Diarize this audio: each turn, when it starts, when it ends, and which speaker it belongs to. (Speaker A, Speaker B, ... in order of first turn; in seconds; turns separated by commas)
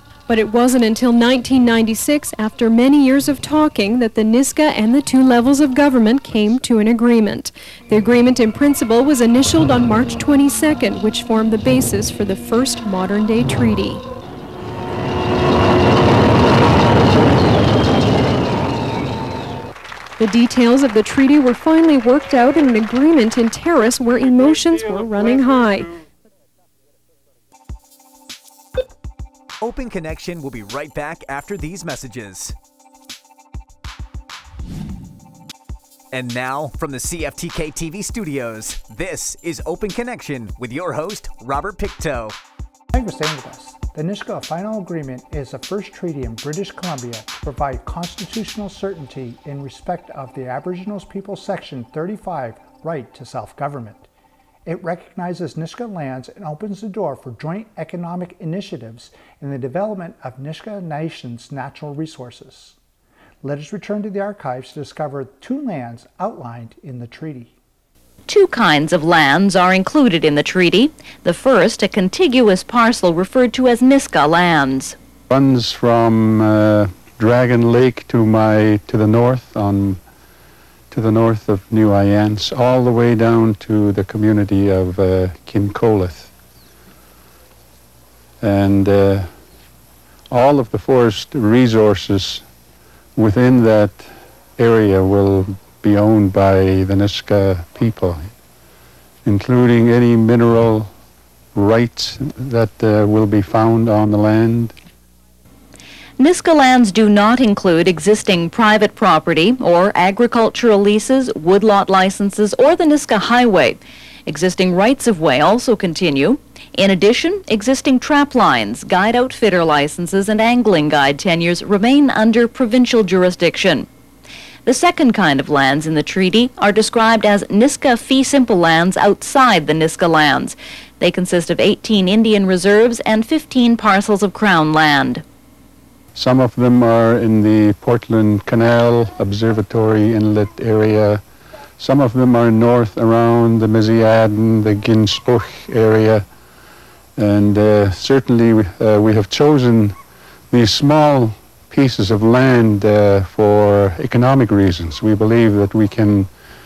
Speaker A: 0.3-14.0, Speaker A: 20.2-25.9, Speaker B: 29.6-32.5, Speaker B: 36.1-42.3, Speaker C: 42.9-54.1, Speaker C: 54.6-62.8, Speaker C: 63.4-67.5, Speaker D: 68.3-75.0, Speaker E: 75.3-80.0, Speaker E: 80.9-86.3, Speaker E: 88.4-89.3, Speaker E: 90.3-92.4, Speaker E: 93.2-98.3, Speaker E: 99.2-100.9, Speaker E: 101.5-104.8, Speaker D: 106.2-123.9, Speaker D: 124.7-135.2, Speaker E: 136.1-141.2, Speaker E: 141.8-146.3, Speaker E: 147.2-150.0, Speaker E: 150.5-156.3